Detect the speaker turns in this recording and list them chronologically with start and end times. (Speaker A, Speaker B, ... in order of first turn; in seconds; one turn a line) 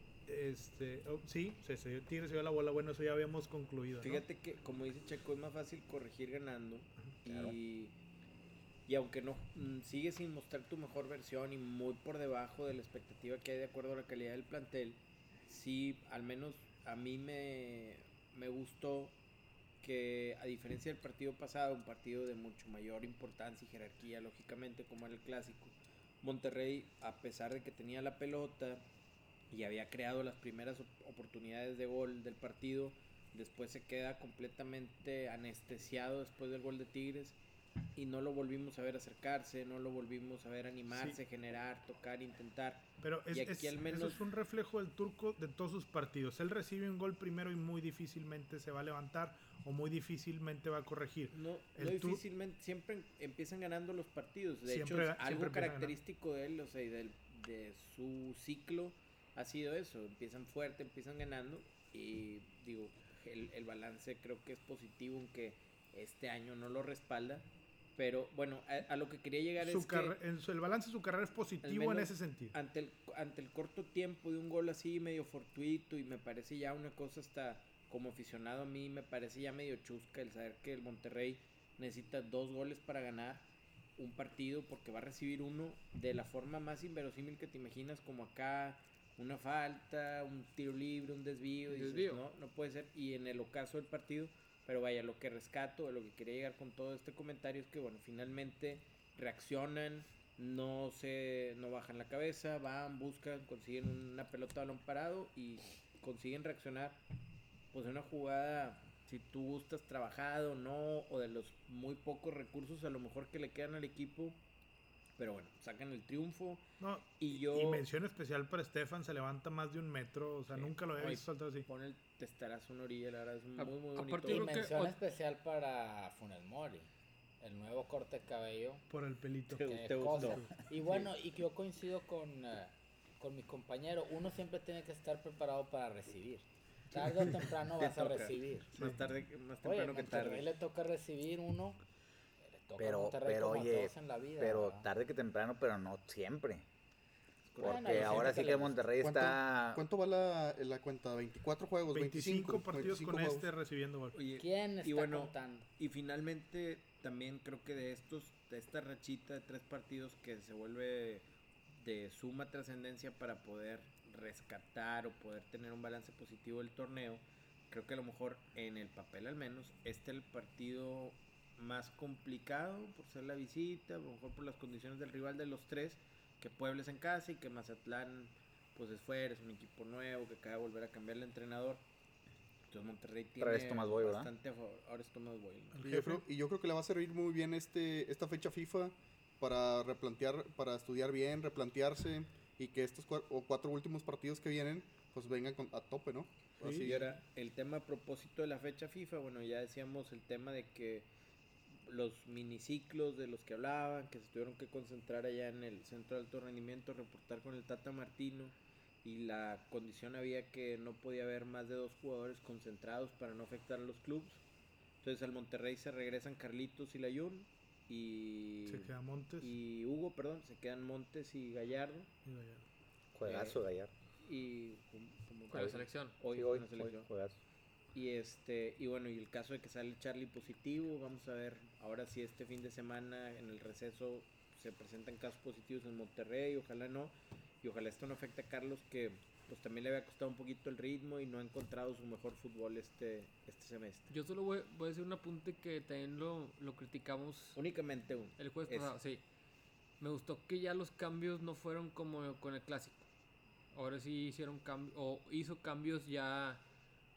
Speaker A: 0.3-4.2
Speaker B: 4.0-8.0
Speaker C: 7.3-7.6
Speaker B: 8.9-19.2
Speaker B: 19.8-28.9
Speaker B: 29.5-37.4
Speaker B: 38.0-44.2
Speaker A: 40.9-41.2
Speaker A: 43.0-52.2
Speaker B: 51.3-70.2
Speaker A: 54.7-56.0
Speaker A: 69.6-72.5
Speaker B: 71.6-107.0
Speaker D: 91.7-92.2
Speaker B: 107.7-114.4
Speaker B: 115.2-117.9
Speaker A: 116.8-121.7
Speaker B: 120.5-124.6
Speaker D: 123.6-125.0
Speaker E: 124.3-126.9
Speaker E: 127.4-128.9
Speaker A: 128.9-130.5
Speaker B: 129.5-131.1
Speaker E: 129.6-138.7
Speaker B: 137.8-140.5
Speaker A: 138.8-139.0
Speaker E: 139.6-141.8
Speaker E: 142.5-144.9
Speaker C: 142.8-146.7
Speaker B: 147.5-148.5
Speaker C: 147.6-149.8
Speaker E: 147.6-148.9
Speaker F: 149.0-153.5
Speaker A: 151.9-154.2
Speaker B: 154.1-161.2
Speaker E: 154.4-155.7
Speaker B: 161.8-181.8
Speaker B: 182.7-185.8
Speaker C: 183.4-184.3
Speaker A: 185.7-186.2
Speaker F: 185.8-197.1
Speaker A: 196.6-197.0
Speaker B: 196.7-201.1
Speaker B: 201.7-214.4
Speaker B: 215.0-222.1
Speaker A: 218.7-219.5
Speaker A: 222.2-222.6
Speaker C: 223.1-223.9
Speaker B: 223.2-223.6
Speaker B: 224.2-227.1
Speaker D: 225.5-226.1
Speaker C: 225.5-227.4
Speaker B: 227.9-244.1
Speaker D: 244.1-247.6
Speaker B: 247.6-248.9
Speaker D: 248.4-249.2
Speaker D: 250.0-253.1
Speaker D: 253.7-256.6